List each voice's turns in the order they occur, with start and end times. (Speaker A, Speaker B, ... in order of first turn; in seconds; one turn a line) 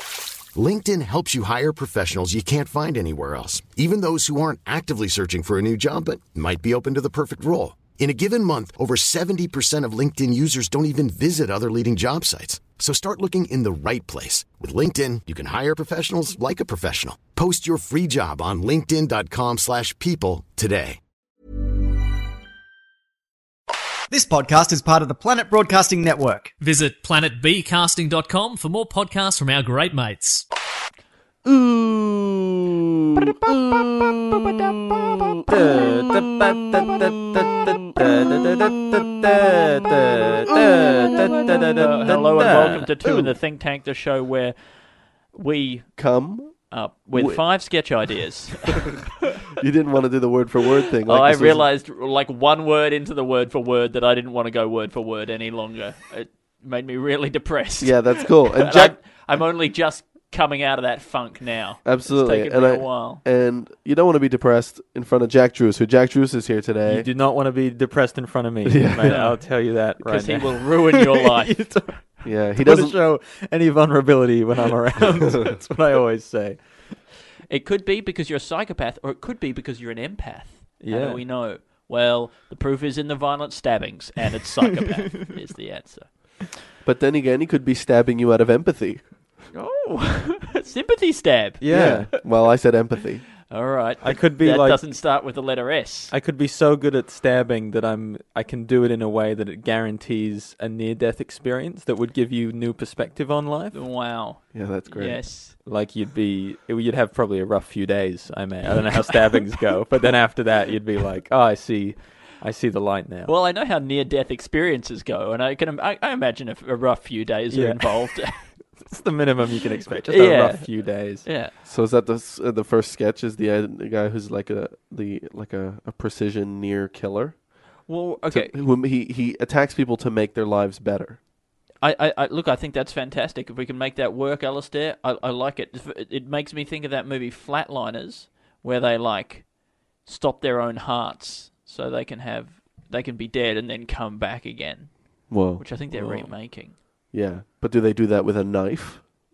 Speaker A: 0.5-21.0
Speaker B: 24.1-26.5
Speaker C: 26.6-30.4
Speaker D: 31.4-39.6
Speaker E: 35.5-42.9
Speaker D: 40.5-43.3
Speaker F: 41.8-44.5
Speaker F: 45.3-46.0
Speaker D: 46.0-47.4
Speaker F: 46.7-49.3
Speaker D: 49.6-51.7
Speaker F: 51.0-63.2
Speaker D: 57.8-59.0
Speaker D: 61.8-67.1
Speaker E: 66.9-77.0
Speaker D: 68.6-69.4
Speaker F: 69.0-71.6
Speaker D: 72.2-73.0
Speaker F: 77.5-86.3
Speaker E: 80.8-81.2
Speaker D: 86.8-89.3
Speaker F: 89.5-92.3
Speaker E: 91.6-92.1
Speaker D: 91.7-93.3
Speaker F: 93.5-96.1
Speaker E: 94.0-94.8
Speaker E: 96.1-103.8
Speaker F: 103.7-105.5
Speaker D: 104.5-105.2
Speaker E: 105.6-113.3
Speaker F: 113.2-118.5
Speaker E: 117.5-121.3
Speaker F: 120.0-121.5
Speaker D: 121.6-127.7
Speaker F: 127.8-128.6
Speaker D: 128.3-131.2
Speaker F: 131.8-139.5
Speaker F: 140.0-146.8
Speaker D: 145.3-149.1